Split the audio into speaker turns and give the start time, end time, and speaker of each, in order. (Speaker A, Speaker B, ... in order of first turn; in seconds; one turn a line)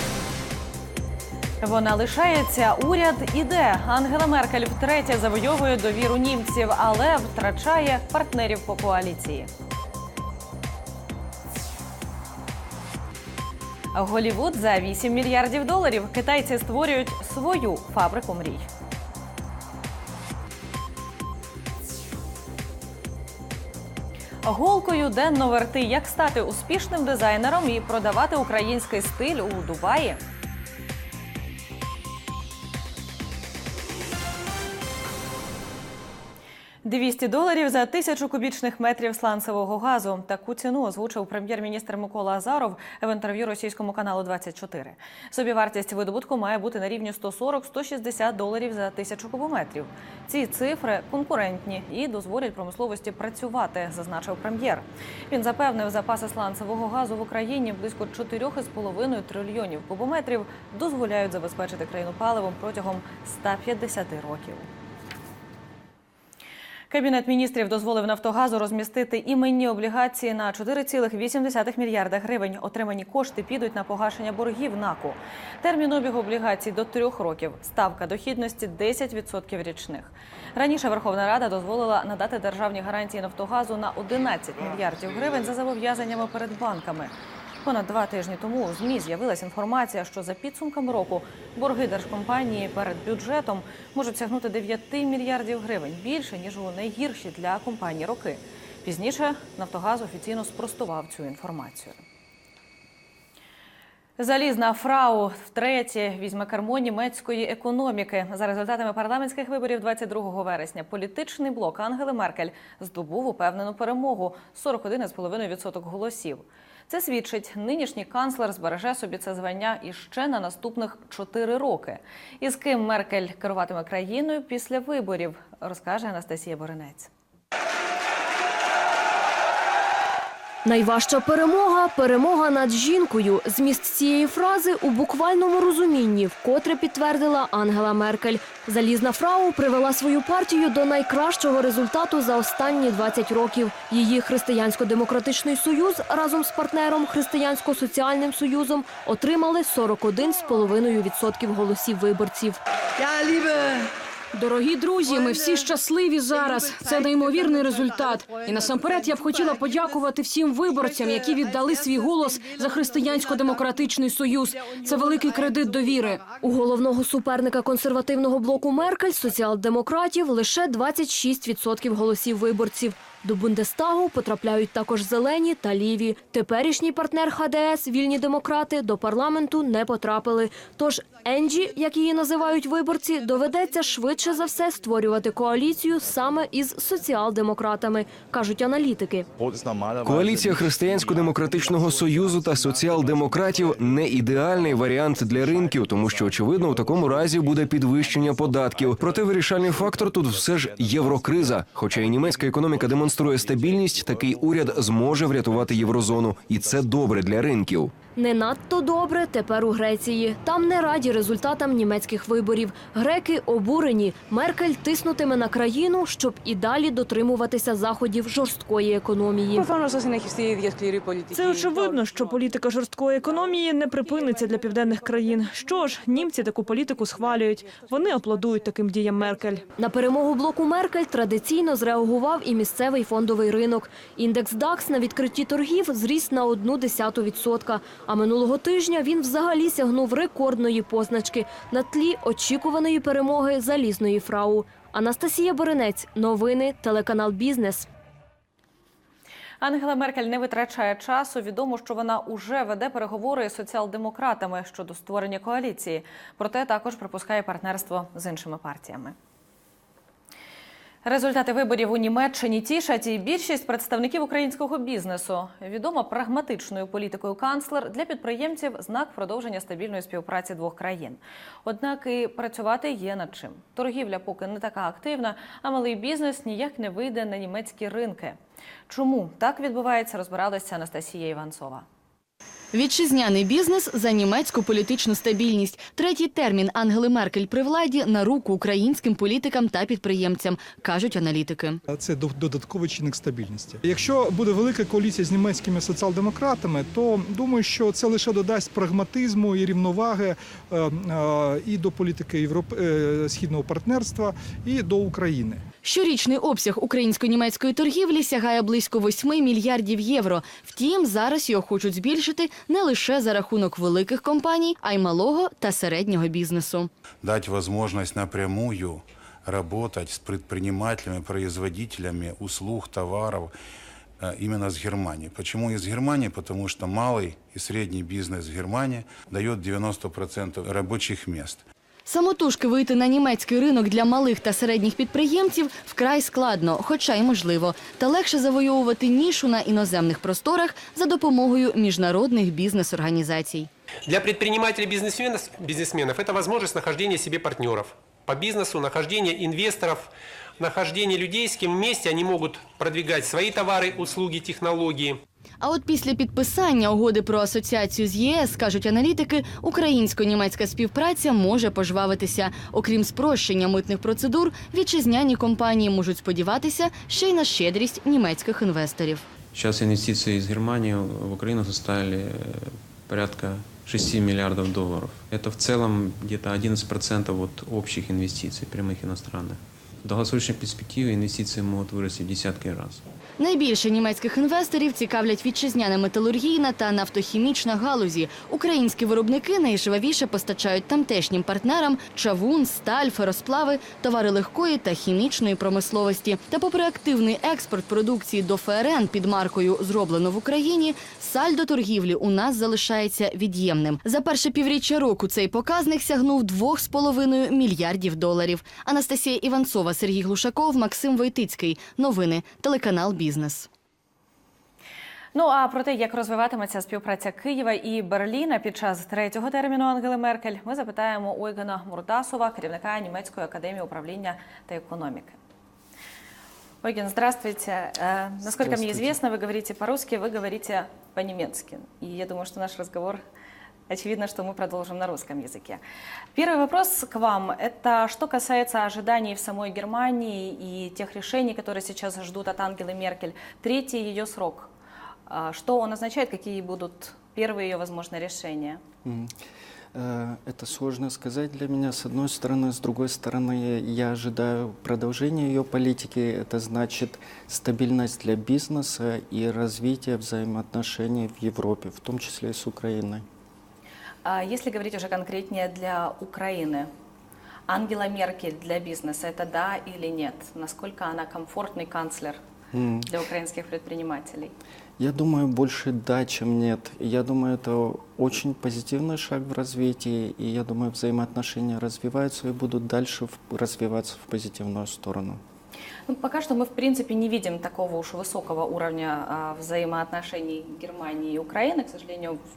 Speaker A: 1.6-9.5
Speaker A: 13.9-18.7
Speaker A: 24.4-30.2
Speaker A: 36.8-64.7
Speaker A: 66.9-87.1
Speaker A: 87.6-102.0
Speaker A: 104.2-127.1
Speaker B: 130.6-152.6
Speaker C: 154.3-166.3
Speaker B: 166.4-189.3
Speaker D: 190.0-207.9
Speaker B: 208.1-219.7
Speaker C: 219.5-222.0
Speaker E: 221.3-229.6
Speaker B: 229.8-247.9
Speaker A: 249.6-259.1
Speaker A: 261.0-278.4
Speaker A: 278.9-281.8
Speaker F: 282.7-291.8
Speaker G: 291.9-305.6
Speaker F: 305.8-316.9
Speaker H: 317.2-323.5
Speaker H: 324.2-331.6
Speaker F: 332.1-343.7
Speaker I: 344.1-355.2
Speaker F: 355.6-369.3
Speaker J: 369.5-383.0
Speaker D: 375.1-375.6
Speaker F: 383.4-413.7
Speaker A: 415.3-425.4
Speaker A: 426.8-433.2
Speaker K: 428.6-429.1
Speaker A: 433.9-435.8
Speaker A: 436.3-444.7
Speaker A: 445.3-448.8
Speaker K: 449.0-449.4
Speaker K: 449.9-463.2
Speaker A: 464.2-466.9
Speaker A: 467.7-472.4
Speaker K: 472.7-473.1
Speaker A: 473.1-474.5
Speaker K: 475.0-485.4
Speaker A: 486.1-492.4